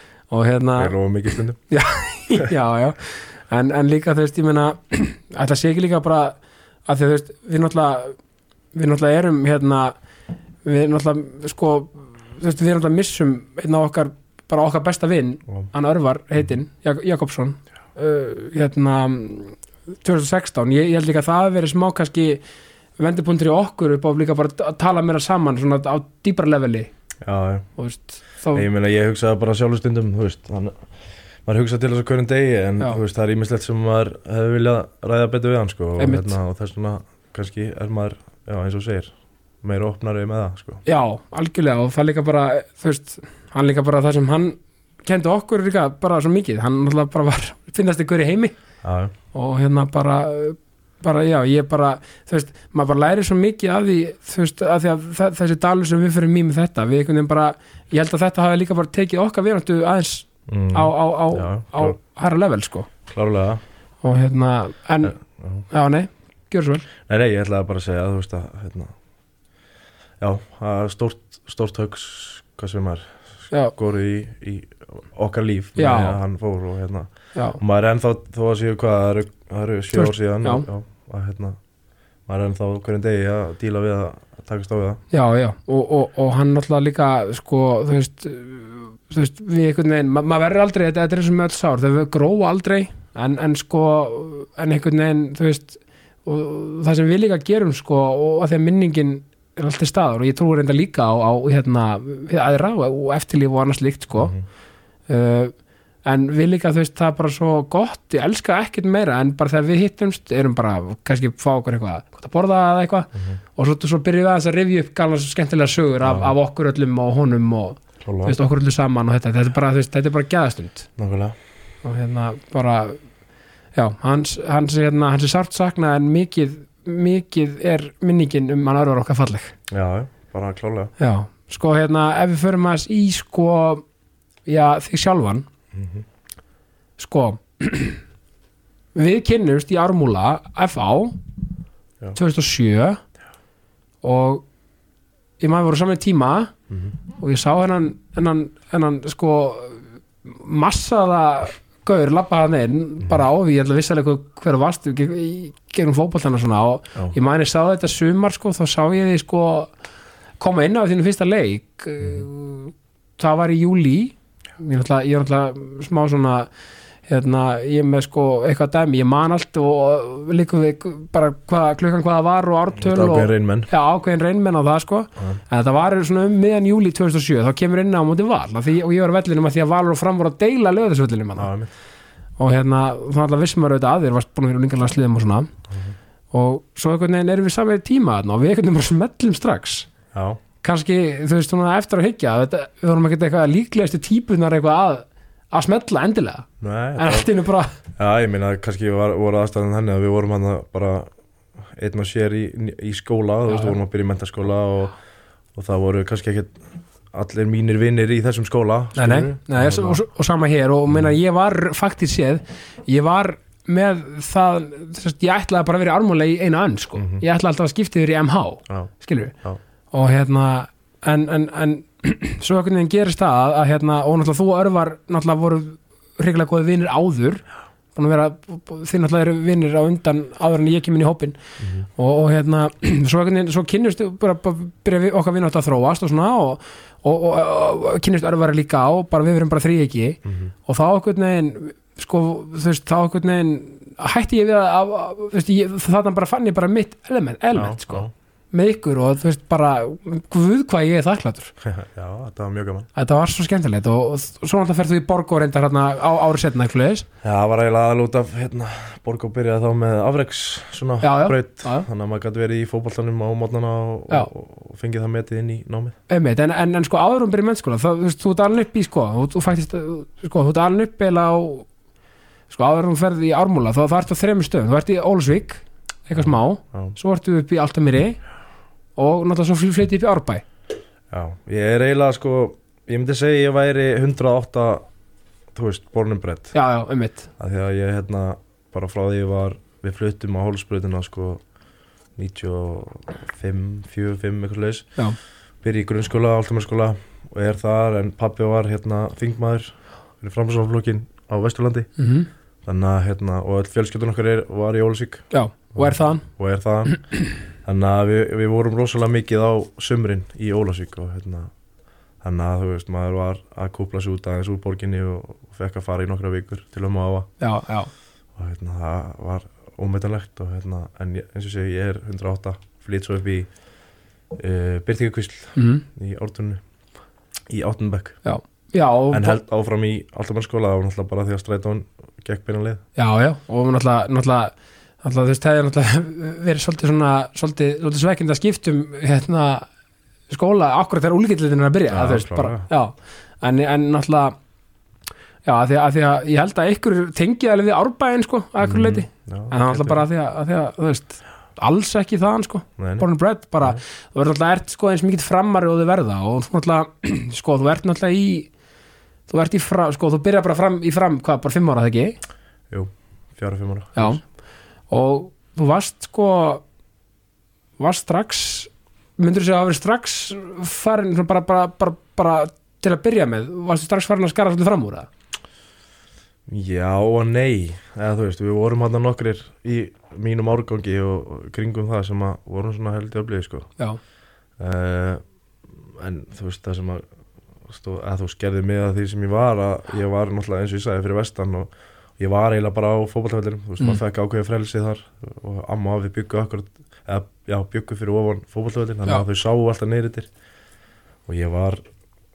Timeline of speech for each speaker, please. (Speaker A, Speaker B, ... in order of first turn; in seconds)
Speaker A: 0.3-0.9, 1.7-8.2, 8.7-9.9, 10.6-22.4, 23.0-26.9, 27.8-28.6, 36.0-36.4, 40.8-48.5, 49.3-62.9, 64.0-65.2, 65.7-66.8, 75.8-76.2, 77.3-77.6, 79.9-80.7, 85.1-104.3, 105.1-105.5, 106.0-120.9, 121.8-123.0, 123.7-129.5, 131.0-133.8, 134.4-135.5, 137.0-138.0, 138.9-141.2, 142.1-143.0, 144.0-144.4, 145.4-146.5, 147.1-159.7, 160.4-166.5, 167.1-181.5, 182.4-185.5, 186.3-189.9, 190.6-197.7, 203.5-203.8, 208.9-219.3, 219.9-227.4, 227.9-231.4, 231.9-251.5, 252.9-257.1, 261.0-261.9, 266.1-271.7, 272.5-278.2, 278.9-280.4, 286.5-287.3, 302.0-302.3, 305.3-306.2, 317.4-317.9, 325.6-325.8, 328.2-329.4, 332.9-339.7, 340.3-344.3, 345.4-358.5, 359.3-362.2, 364.9-366.6, 367.8-375.1
Speaker B: 0.8-1.6, 27.2-27.7, 28.5-30.8, 31.4-40.8, 48.8-49.1, 60.5-62.0, 63.1-63.6, 65.0-65.7, 67.0-68.9, 70.2-73.2, 73.7-81.6, 82.3-85.0, 104.1-104.4, 116.0-116.3, 118.0-118.3, 121.0-121.3, 129.7-130.9, 135.7-136.0, 172.7-173.7, 181.4-181.7, 185.7-185.9, 190.1-190.4, 196.6-197.3, 198.0-201.1, 201.8-204.9, 205.5-206.6, 207.1-210.0, 210.9-211.1, 217.0-217.2, 231.6-231.8, 240.2-240.5, 247.5-248.1, 251.6-252.9, 257.2-265.9, 276.1-276.9, 281.1-284.8, 285.5-286.5, 287.4-291.4, 292.2-294.9, 295.6-301.9, 302.6-307.0, 307.6-311.5, 312.2-317.3, 318.4-323.5, 324.4-326.6, 327.5-328.2, 329.1-332.8, 341.9-342.7, 348.6-350.0, 352.8-353.1, 362.7-364.2, 376.5-383.7, 384.6-385.2, 385.7-387.0, 387.7-400.3, 401.2-401.8